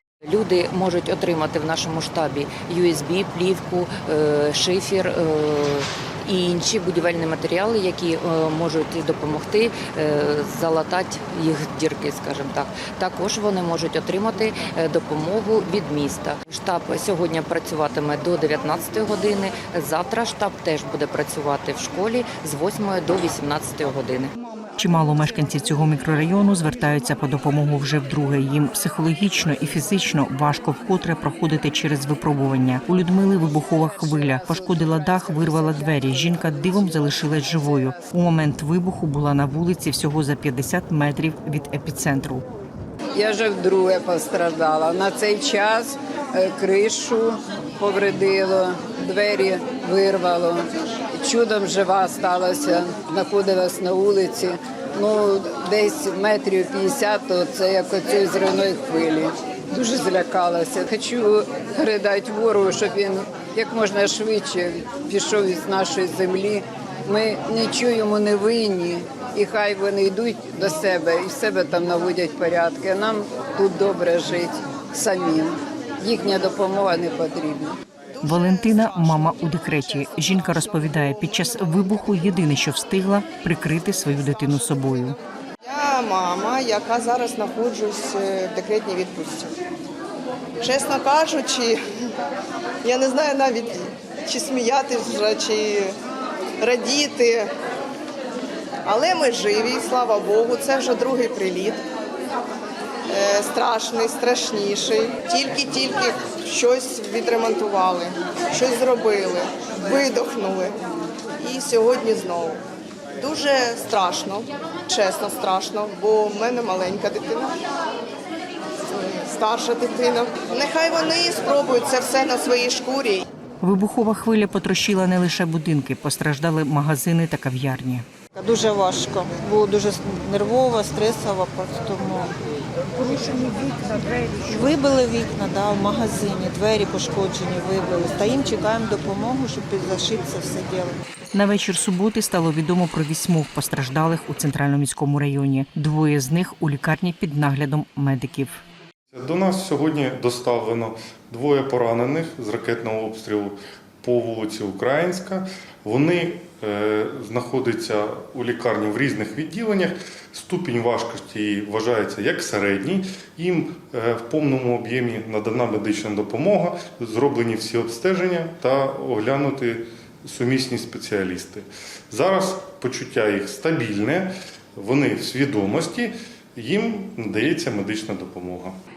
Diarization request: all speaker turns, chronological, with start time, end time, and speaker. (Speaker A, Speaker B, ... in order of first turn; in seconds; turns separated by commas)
Speaker A: 0.2-24.3, Speaker B: 24.8-42.4, Speaker C: 43.1-77.8, Speaker D: 78.2-79.0, Speaker B: 78.2-85.2, Speaker D: 85.6-89.5, Speaker D: 90.6-91.8, Speaker D: 92.8-95.9, Speaker D: 96.6-97.5, Speaker D: 98.8-101.8, Speaker D: 103.1-110.8, Speaker D: 111.4-112.6, Speaker D: 113.2-117.5, Speaker D: 118.9-123.2, Speaker B: 123.6-128.0, Speaker E: 128.3-132.3, Speaker E: 132.9-141.0, Speaker B: 141.3-148.6, Speaker F: 149.1-178.8